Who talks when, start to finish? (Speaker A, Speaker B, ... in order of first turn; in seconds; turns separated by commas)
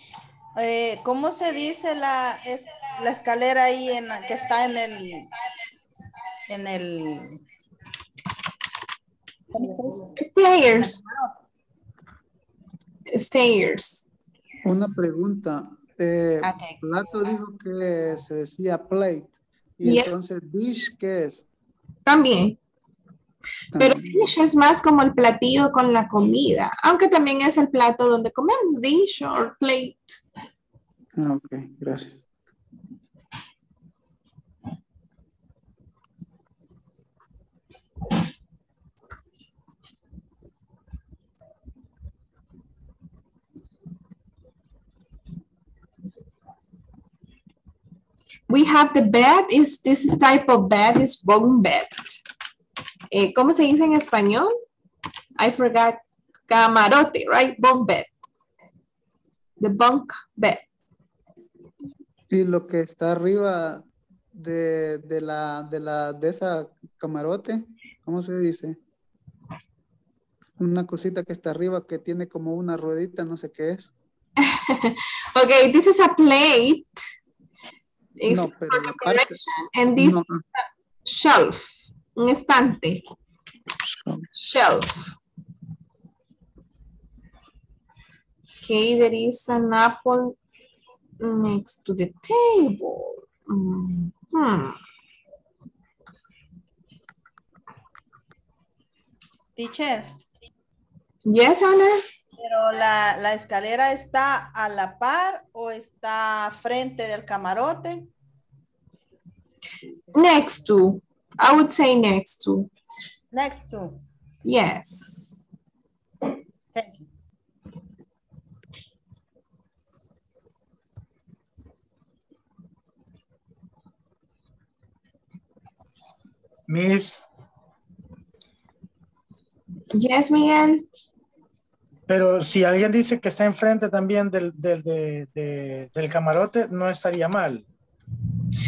Speaker A: 0.6-5.3, Speaker A: 6.5-7.4, Speaker A: 9.5-10.1, Speaker B: 10.2-11.0, Speaker A: 10.8-11.3, Speaker B: 13.1-14.1, Speaker C: 14.7-21.4, Speaker A: 16.4-16.8, Speaker B: 22.1-22.6, Speaker C: 23.8-24.2, Speaker B: 23.8-30.2, Speaker C: 31.2-32.1, Speaker B: 48.5-52.0, Speaker B: 53.1-54.5, Speaker B: 55.4-58.1, Speaker B: 59.6-60.6, Speaker C: 62.3-63.8, Speaker C: 64.4-68.8, Speaker C: 70.6-73.9, Speaker B: 74.4-77.0, Speaker B: 78.2-83.0, Speaker C: 78.3-79.4, Speaker C: 80.0-80.4, Speaker C: 83.8-84.3, Speaker B: 84.3-85.1, Speaker B: 88.6-90.4, Speaker B: 91.2-94.8, Speaker A: 99.6-100.1, Speaker B: 101.2-102.0, Speaker A: 102.4-108.1, Speaker B: 110.1-112.7, Speaker A: 113.3-114.0, Speaker B: 114.4-115.5, Speaker A: 116.7-117.1, Speaker D: 126.7-127.2, Speaker B: 129.9-130.8, Speaker D: 132.1-137.7